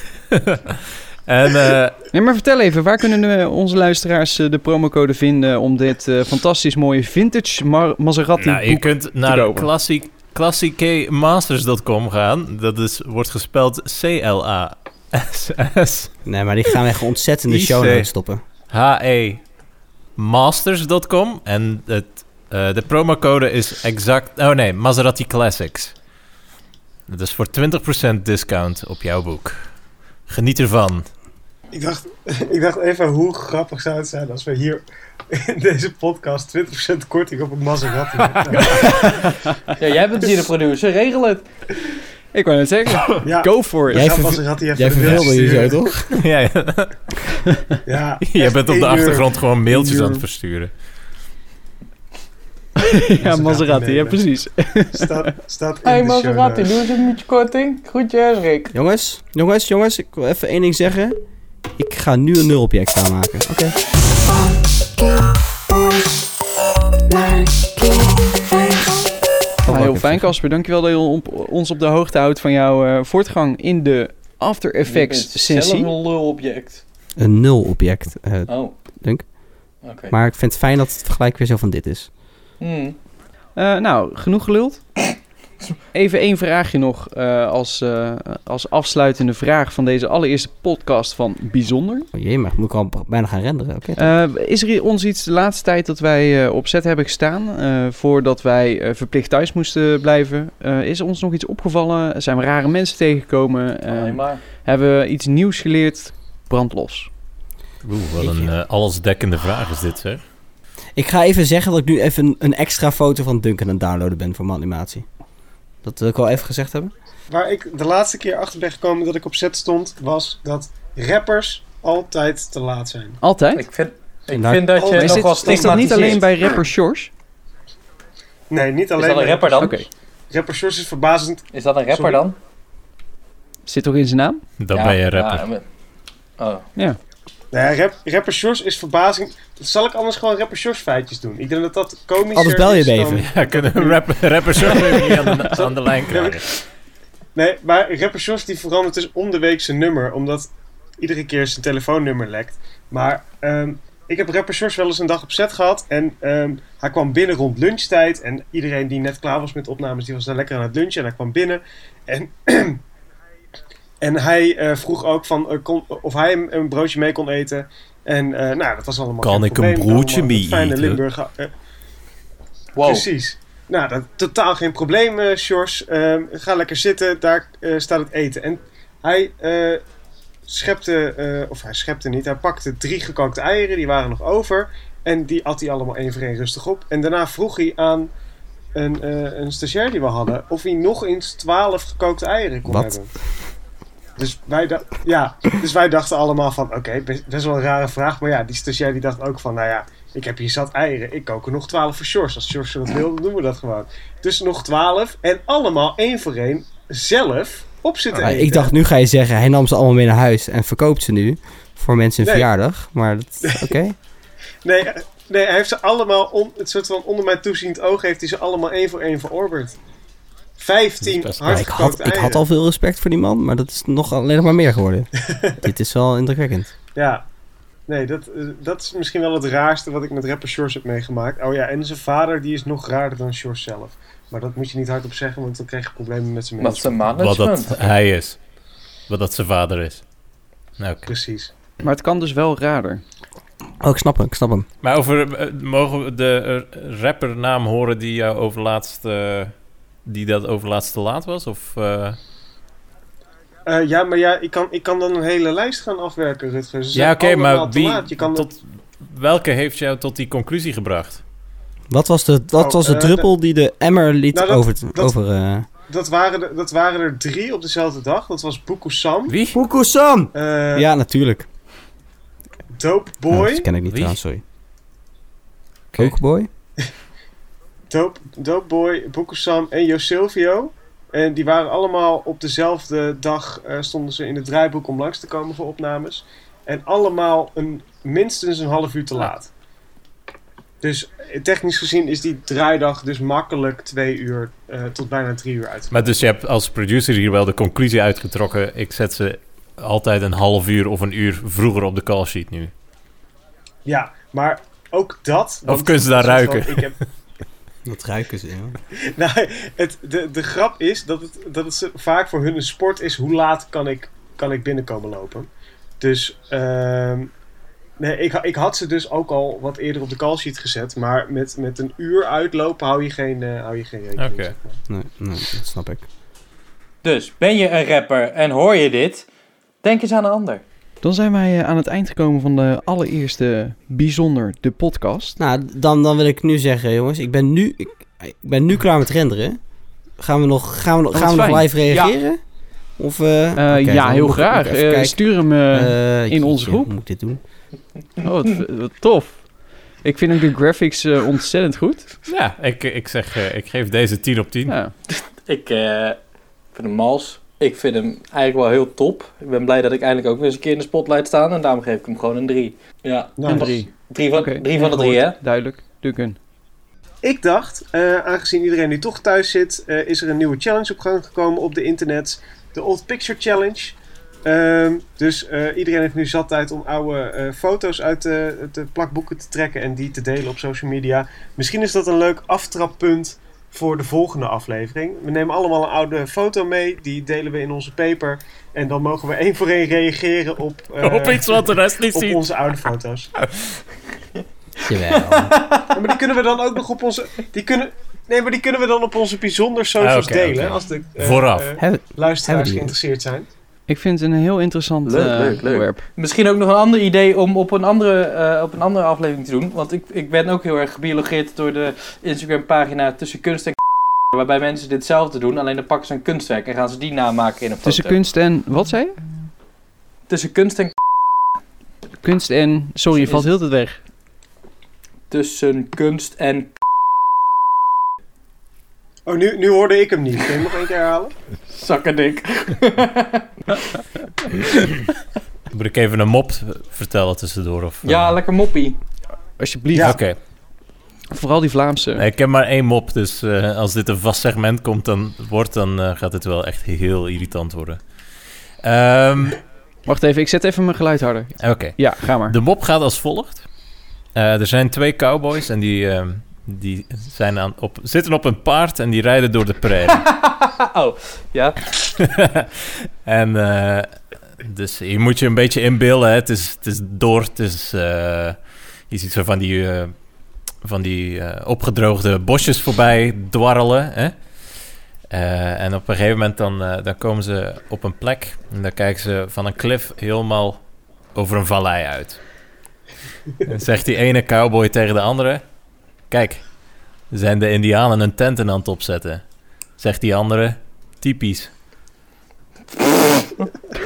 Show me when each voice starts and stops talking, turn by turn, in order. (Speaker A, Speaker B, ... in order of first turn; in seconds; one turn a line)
Speaker A: 0.3-2.0
Speaker B: 2.1-9.7
Speaker A: 8.4-16.2
Speaker C: 16.3-18.4
Speaker A: 17.5-18.1
Speaker A: 18.7-19.4
Speaker A: 20.2-26.0
Speaker A: 27.1-31.1
Speaker D: 31.7-39.2
Speaker B: 38.9-39.4
Speaker E: 39.8-41.5
Speaker B: 42.3-44.1
Speaker D: 43.2-45.8
Speaker C: 43.9-46.2
Speaker A: 46.1-47.1
Speaker D: 47.9-49.3
Speaker A: 48.2-50.7
Speaker B: 49.7-50.2
Speaker B: 52.8-55.3
Speaker D: 53.2-54.3
Speaker D: 54.9-56.8
Speaker E: 55.8-58.7
Speaker C: 58.7-61.2
Speaker C: 61.8-63.8
Speaker C: 69.6-70.3
Speaker B: 69.7-75.9
Speaker E: 74.9-76.8
Speaker C: 77.2-79.3
Speaker E: 78.5-78.8
Speaker E: 79.8-80.2
Speaker C: 80.1-82.1
Speaker E: 82.6-83.0
Speaker B: 83.6-84.8
Speaker B: 85.9-92.1
Speaker C: 92.1-94.1
Speaker B: 94.0-107.1
Speaker E: 103.9-104.4
Speaker A: 107.8-110.2
Speaker C: 108.2-108.5
Speaker C: 111.0-115.1
Speaker C: 115.8-116.9
Speaker D: 117.3-123.2
Speaker B: 123.2-123.7
Speaker E: 123.5-126.6
Speaker C: 124.3-124.8
Speaker D: 124.8-126.2
Speaker B: 124.9-127.1
Speaker D: 128.5-129.8
Speaker E: 129.0-129.9
Speaker B: 129.6-129.9
Speaker D: 130.3-132.2
Speaker E: 131.5-132.4
Speaker B: 133.7-134.4
Speaker A: 134.6-135.5
Speaker E: 134.7-135.7
Speaker E: 136.4-136.7
Speaker D: 137.5-144.0
Speaker C: 142.3-143.3
Speaker A: 143.2-146.5
Speaker D: 144.5-146.4
Speaker D: 147.3-162.8
Speaker D: 164.0-171.5
Speaker A: 169.2-171.0
Speaker E: 172.8-173.1
Speaker D: 172.8-179.8
Speaker D: 180.5-188.1
Speaker D: 188.8-193.1
Speaker C: 192.7-193.0
Speaker D: 194.2-208.7
Speaker C: 208.2-214.0
Speaker D: 212.2-212.5
Speaker D: 213.5-213.8
Speaker D: 214.6-219.8
Speaker D: 220.6-222.4
Speaker A: 221.0-221.7
Speaker C: 221.4-225.1
Speaker C: 225.6-226.7
Speaker D: 226.9-227.2
Speaker D: 227.9-237.1
Speaker E: 236.6-237.8
Speaker A: 237.2-238.4
Speaker A: 239.1-240.0
Speaker A: 240.8-241.1
Speaker D: 241.1-241.5
Speaker B: 241.8-243.0
Speaker C: 243.8-244.7
Speaker A: 244.8-249.5
Speaker A: 250.1-252.2
Speaker D: 253.7-258.5
Speaker A: 256.9-261.2
Speaker C: 261.9-265.7
Speaker D: 262.6-263.3
Speaker D: 264.3-265.2
Speaker D: 265.9-269.4
Speaker A: 269.3-269.6
Speaker C: 269.5-271.5
Speaker D: 270.3-270.9
Speaker D: 272.8-273.7
Speaker C: 273.3-274.4
Speaker A: 273.9-274.2
Speaker C: 275.9-276.5
Speaker D: 277.9-289.5
Speaker D: 290.8-296.1
Speaker A: 295.9-302.7
Speaker D: 303.9-306.9
Speaker A: 305.7-307.0
Speaker C: 307.9-308.8
Speaker D: 309.1-317.3
Speaker D: 318.0-324.8
Speaker A: 324.2-324.5
Speaker C: 324.9-326.1
Speaker E: 327.0-329.3
Speaker E: 329.8-330.6
Speaker B: 331.0-335.4
Speaker C: 335.4-339.6
Speaker C: 340.2-342.4
Speaker B: 341.1-341.7
Speaker E: 341.9-342.1
Speaker C: 343.0-347.4
Speaker B: 343.6-346.9
Speaker B: 348.2-349.5
Speaker B: 350.0-352.1
Speaker A: 352.3-354.8
Speaker B: 354.7-354.9
Speaker E: 355.4-356.2
Speaker E: 356.7-365.4
Speaker D: 363.4-363.7
Speaker B: 363.5-366.4
Speaker D: 367.2-393.3
Speaker A: 391.0-392.5
Speaker A: 393.4-393.8
Speaker C: 394.9-395.6
Speaker E: 395.1-395.9
Speaker D: 395.9-403.5
Speaker A: 400.0-401.8
Speaker C: 401.8-402.9
Speaker B: 403.9-406.0
Speaker E: 405.1-413.8
Speaker E: 414.3-418.2
Speaker B: 417.8-419.2
Speaker E: 420.3-420.9
Speaker B: 422.2-424.0
Speaker E: 425.3-426.7
Speaker D: 429.3-431.3
Speaker E: 431.7-433.8
Speaker A: 435.7-438.4
Speaker E: 438.0-439.0
Speaker B: 439.6-440.2
Speaker D: 439.9-440.2
Speaker A: 440.0-440.4
Speaker B: 441.3-442.2
Speaker A: 442.2-449.6
Speaker B: 450.1-452.6
Speaker A: 451.6-453.7
Speaker A: 454.4-460.3
Speaker E: 460.2-461.8
Speaker A: 462.2-462.7
Speaker A: 463.2-470.1
Speaker A: 470.8-480.8
Speaker A: 481.3-482.4
Speaker A: 483.6-485.6
Speaker A: 486.3-489.4
Speaker A: 490.0-491.7